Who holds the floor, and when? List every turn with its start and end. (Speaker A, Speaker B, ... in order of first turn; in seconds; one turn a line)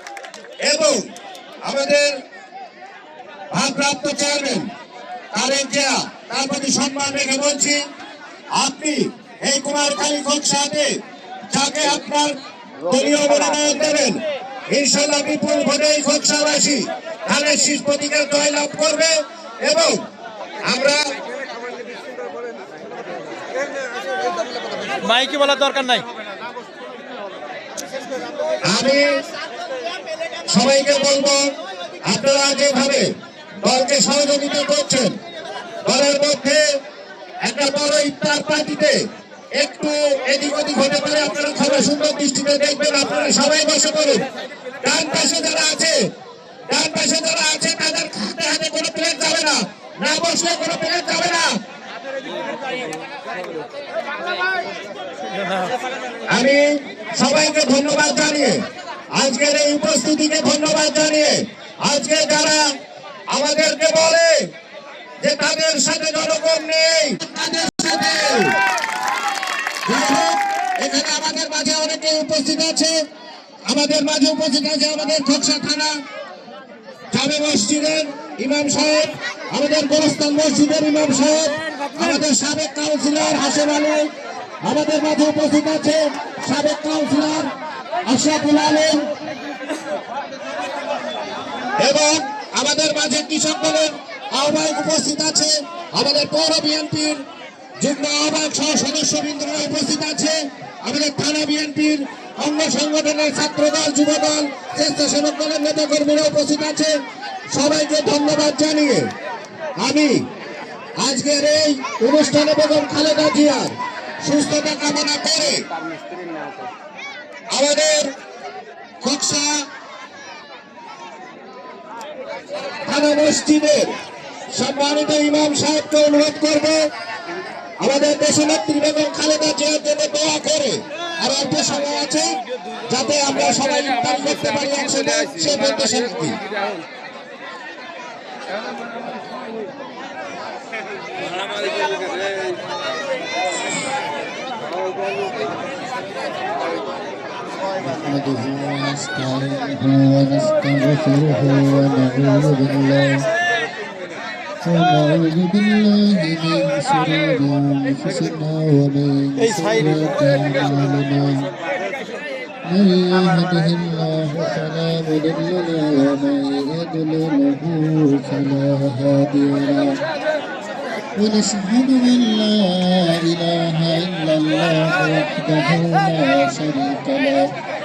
Speaker A: 0.7-1.1
Speaker A: 1.6-2.1
Speaker A: 3.5-4.7
Speaker A: 5.3-7.8
Speaker A: 8.6-10.9
Speaker A: 11.5-14.2
Speaker B: 13.0-13.6
Speaker A: 14.7-20.0
Speaker A: 20.7-21.0
Speaker B: 25.0-26.1
Speaker A: 28.7-29.1
Speaker A: 30.5-31.5
Speaker A: 32.1-33.1
Speaker A: 33.6-35.2
Speaker A: 35.9-36.6
Speaker A: 37.5-39.0
Speaker A: 39.6-44.2
Speaker A: 44.8-46.0
Speaker A: 46.7-51.5
Speaker A: 56.3-58.6
Speaker A: 59.1-62.6
Speaker A: 63.3-64.4
Speaker A: 65.2-68.6
Speaker A: 69.8-73.0
Speaker A: 73.7-76.0
Speaker A: 77.1-84.1
Speaker A: 84.6-87.5
Speaker A: 88.1-89.1
Speaker A: 91.8-97.2
Speaker A: 97.8-106.9
Speaker A: 107.5-109.1
Speaker A: 109.8-110.2
Speaker A: 111.0-115.7
Speaker B: 115.7-116.7
Speaker A: 117.5-118.1
Speaker A: 119.0-119.7
Speaker A: 122.9-123.9
Speaker A: 124.5-126.8
Speaker A: 127.8-136.4
Speaker C: 147.9-153.3
Speaker C: 154.6-161.4
Speaker C: 162.7-170.0
Speaker C: 171.2-177.5